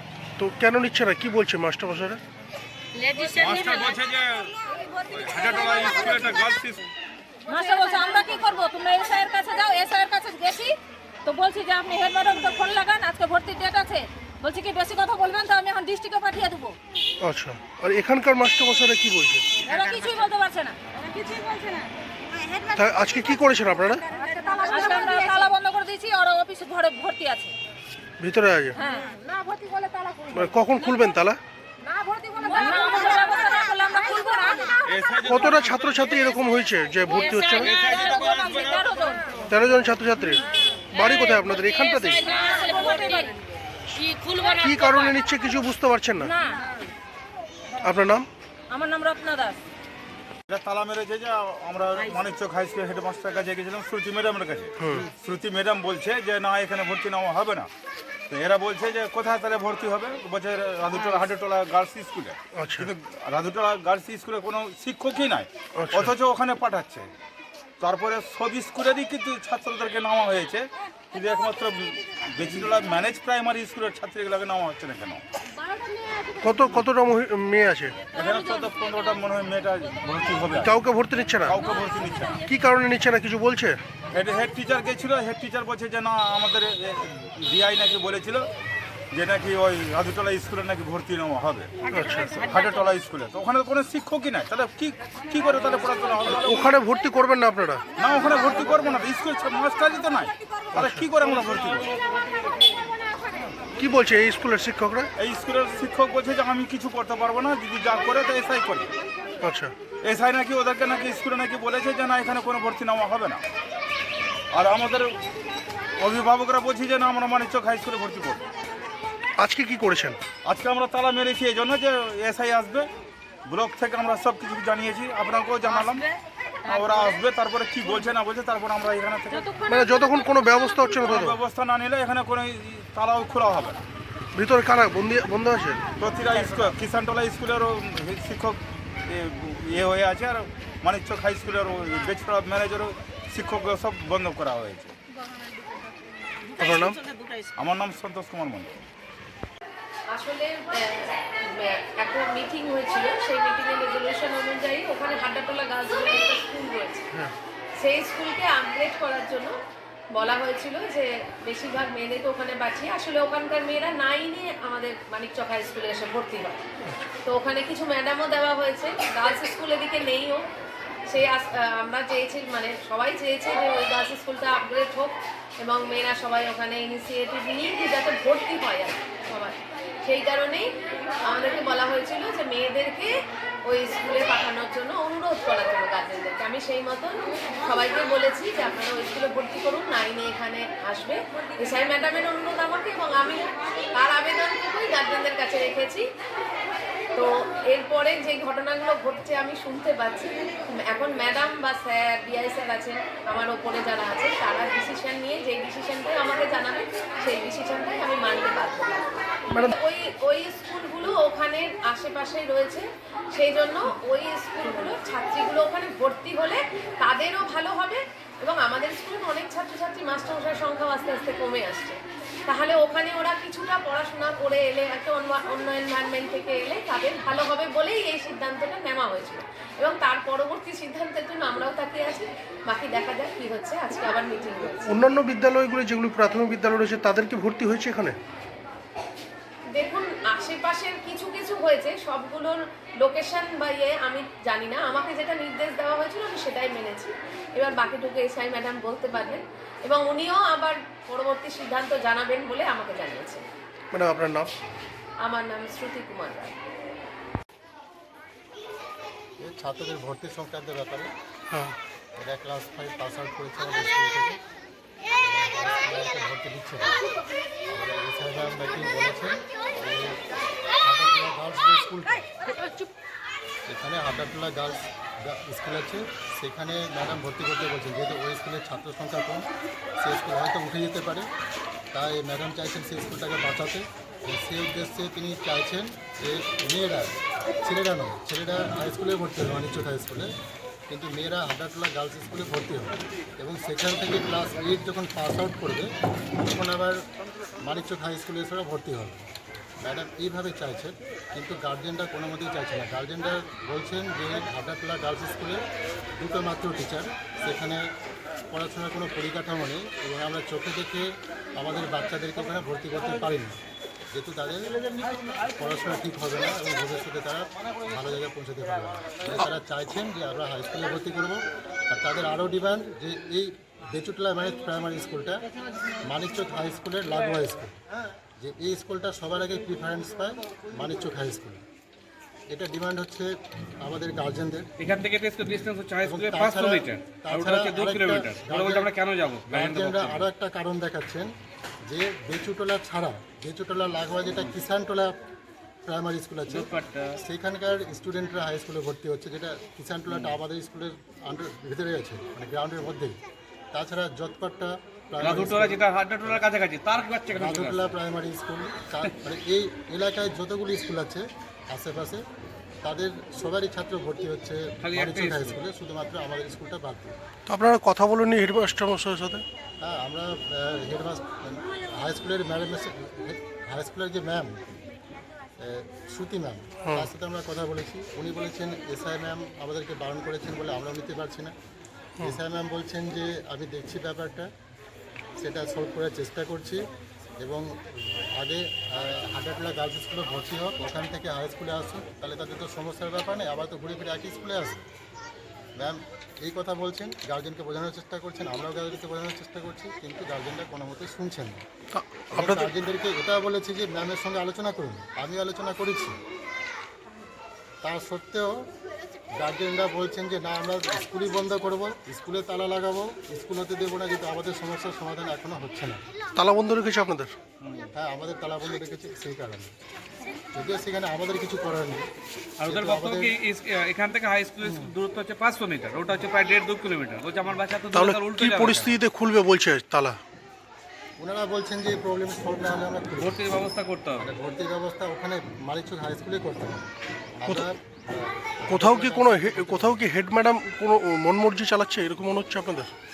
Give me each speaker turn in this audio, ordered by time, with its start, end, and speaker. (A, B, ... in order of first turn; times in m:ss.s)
0:00.4-0:02.2 A
0:03.1-0:03.4 B
0:03.3-0:06.8 C
0:07.5-0:16.8 B
0:17.2-0:19.4 A
0:19.6-0:21.4 B
0:22.7-0:24.0 A
0:24.4-0:27.5 B
0:28.2-0:28.8 A
0:28.8-0:30.3 B
0:30.3-0:31.4 A
0:31.8-0:34.8 B
0:34.8-0:36.0 C
0:35.3-0:37.7 A
0:37.1-0:39.4 B
0:37.6-0:39.0 C
0:39.5-0:42.2 A
0:42.0-0:43.4 B
0:44.0-0:44.6 B
0:44.6-0:46.3 A
0:46.2-0:46.6 B
0:47.8-0:48.3 A
0:48.7-0:49.6 B
0:50.5-0:57.7 C
0:54.8-0:55.0 A
0:58.3-1:07.1 C
1:02.5-1:02.9 A
1:05.8-1:06.1 A
1:07.8-1:15.2 C
1:16.4-1:18.0 A
1:18.1-1:20.8 C
1:20.6-1:21.6 A
1:21.4-1:22.5 C
1:22.4-1:23.8 A
1:24.1-1:28.5 C
1:29.1-1:36.8 C
1:31.9-1:32.3 A
1:36.4-1:37.8 A
1:38.0-1:41.9 C
1:40.7-1:41.0 A
1:43.8-1:45.1 A
1:45.2-1:48.9 C
1:49.4-1:49.7 A
1:50.0-1:53.4 C
1:54.5-1:55.2 C
1:56.0-1:58.4 C
1:59.4-2:00.2 A
2:00.4-2:02.9 C
2:03.5-2:06.1 C
2:06.6-2:09.5 C
2:09.7-2:11.4 A
2:11.0-2:13.8 C
2:14.3-2:15.8 A
2:16.0-2:24.9 C
2:26.6-2:27.0 A
2:27.6-2:28.8 C
2:30.1-2:37.0 D
2:37.8-2:39.5 D
2:40.1-2:46.6 D
2:47.2-2:50.4 D
2:51.1-3:00.7 D
3:01.2-3:03.1 D
3:03.6-3:16.0 D
3:17.1-3:55.0 D
3:54.8-3:58.2 A
3:59.7-4:13.4 D
4:13.9-4:14.5 A
4:15.2-4:16.6 D
4:19.4-4:21.1 E
4:21.5-4:21.8 A
4:22.2-4:24.4 E
4:25.2-4:26.9 E
4:27.7-4:30.2 E
4:30.8-4:32.3 E
4:33.7-4:39.5 E
4:40.0-4:41.3 E
4:41.9-4:50.3 E
4:50.9-4:57.0 E
4:57.6-4:59.3 E
4:59.8-5:05.6 E
5:06.2-5:07.9 E
5:08.5-5:13.6 E
5:14.1-5:14.8 E
5:15.6-5:25.4 E
5:26.0-5:27.7 E
5:28.4-5:31.6 E
5:32.5-5:34.7 E
5:34.8-5:40.3 F
5:36.0-5:38.9 E
5:39.5-5:41.3 E
5:41.8-5:45.2 E
5:45.8-5:53.2 E
5:46.5-5:47.2 F
5:50.1-5:50.4 F
5:53.7-5:56.5 E
5:55.2-5:57.9 F
5:57.3-6:02.2 E
6:02.8-6:07.2 E
6:04.8-6:05.6 F
6:07.5-6:09.4 A
6:09.8-6:14.7 E
6:15.6-6:21.5 E
6:16.8-6:17.1 A
6:22.2-6:24.5 E
6:25.4-6:26.8 E
6:27.4-6:34.8 E
6:35.8-6:41.6 E
6:41.9-6:42.7 A
6:42.3-6:46.2 E
6:47.8-6:48.5 E
6:49.4-6:56.0 E
6:56.4-6:57.3 A
6:57.6-6:59.7 E
7:00.5-7:02.1 E
7:02.6-7:09.0 F
7:02.6-7:03.4 E
7:04.6-7:04.9 E
7:07.9-7:10.2 A
7:11.2-7:13.4 E
7:13.2-7:14.3 F
7:14.2-7:20.0 E
7:17.4-7:17.7 A
7:18.7-7:22.9 A